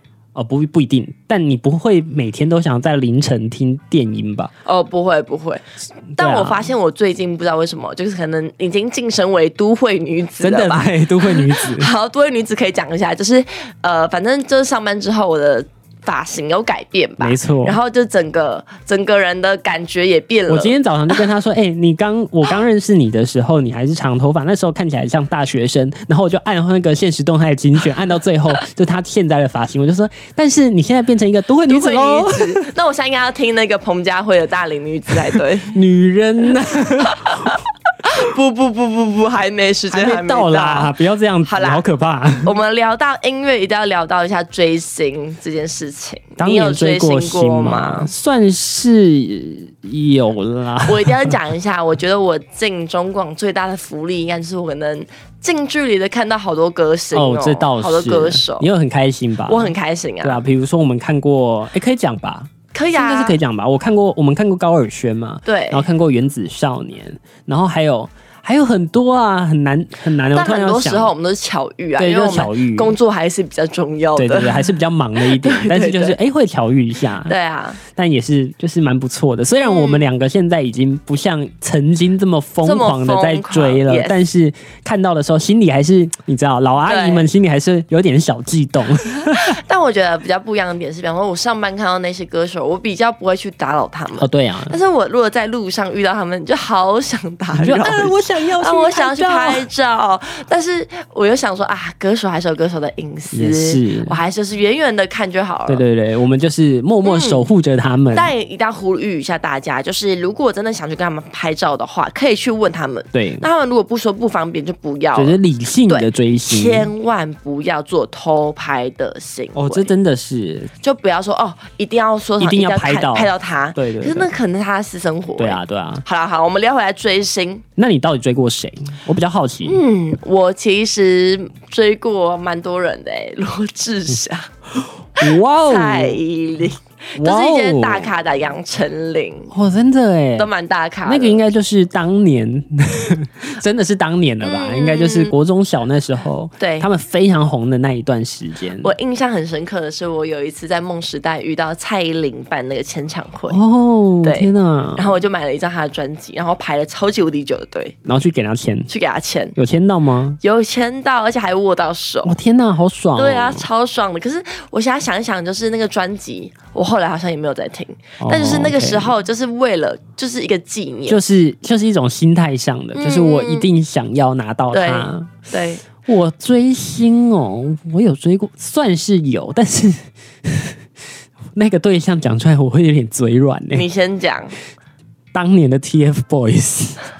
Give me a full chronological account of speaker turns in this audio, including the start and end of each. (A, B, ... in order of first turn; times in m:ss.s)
0:00.4-0:04.5 A
0:04.6-0:20.8 B
0:06.2-0:06.7 A
0:10.4-0:11.9 A
0:17.2-0:17.8 A
0:20.5-0:32.7 A
0:31.7-0:35.8 B
0:35.7-0:37.6 A
0:37.0-0:41.8 B
0:39.9-0:42.5 A
0:42.4-0:48.1 B
0:46.4-0:51.3 A
0:50.9-0:58.7 B
0:57.1-1:11.1 A
0:59.5-1:00.4 B
1:02.7-1:03.4 B
1:05.5-1:05.9 B
1:10.3-1:16.2 B
1:12.0-1:12.9 A
1:14.2-1:17.3 A
1:17.2-1:17.8 B
1:17.9-1:29.6 A
1:19.6-1:20.0 B
1:22.6-1:24.2 B
1:26.9-1:27.3 B
1:29.2-1:45.8 B
1:34.2-1:34.8 A
1:37.5-1:39.7 A
1:43.3-1:44.2 A
1:45.7-1:48.3 A
1:47.0-1:47.4 B
1:48.1-1:55.4 B
1:53.1-1:53.5 A
1:55.2-1:56.9 A
1:55.9-1:59.9 B
1:59.5-2:00.7 A
2:00.8-2:07.6 B
2:02.4-2:04.3 A
2:05.4-2:06.0 A
2:07.8-2:09.8 A
2:09.6-2:14.5 B
2:15.2-2:19.5 B
2:15.2-2:16.2 A
2:17.2-2:18.1 A
2:19.5-2:20.5 A
2:20.4-2:21.4 B
2:21.1-2:28.9 A
2:24.4-2:25.3 B
2:26.6-2:26.9 B
2:28.8-2:33.6 B
2:33.5-2:35.2 A
2:34.2-2:38.0 B
2:38.0-2:38.9 A
2:38.9-2:39.6 B
2:39.6-2:40.4 A
2:40.4-2:42.3 B
2:42.2-2:43.6 A
2:43.2-2:51.2 B
2:48.2-2:49.1 A
2:51.1-2:55.3 A
2:53.0-2:53.7 B
2:54.7-2:55.8 B
2:56.0-3:00.8 A
3:01.6-3:03.9 A
3:03.7-3:04.6 B
3:05.3-3:07.0 A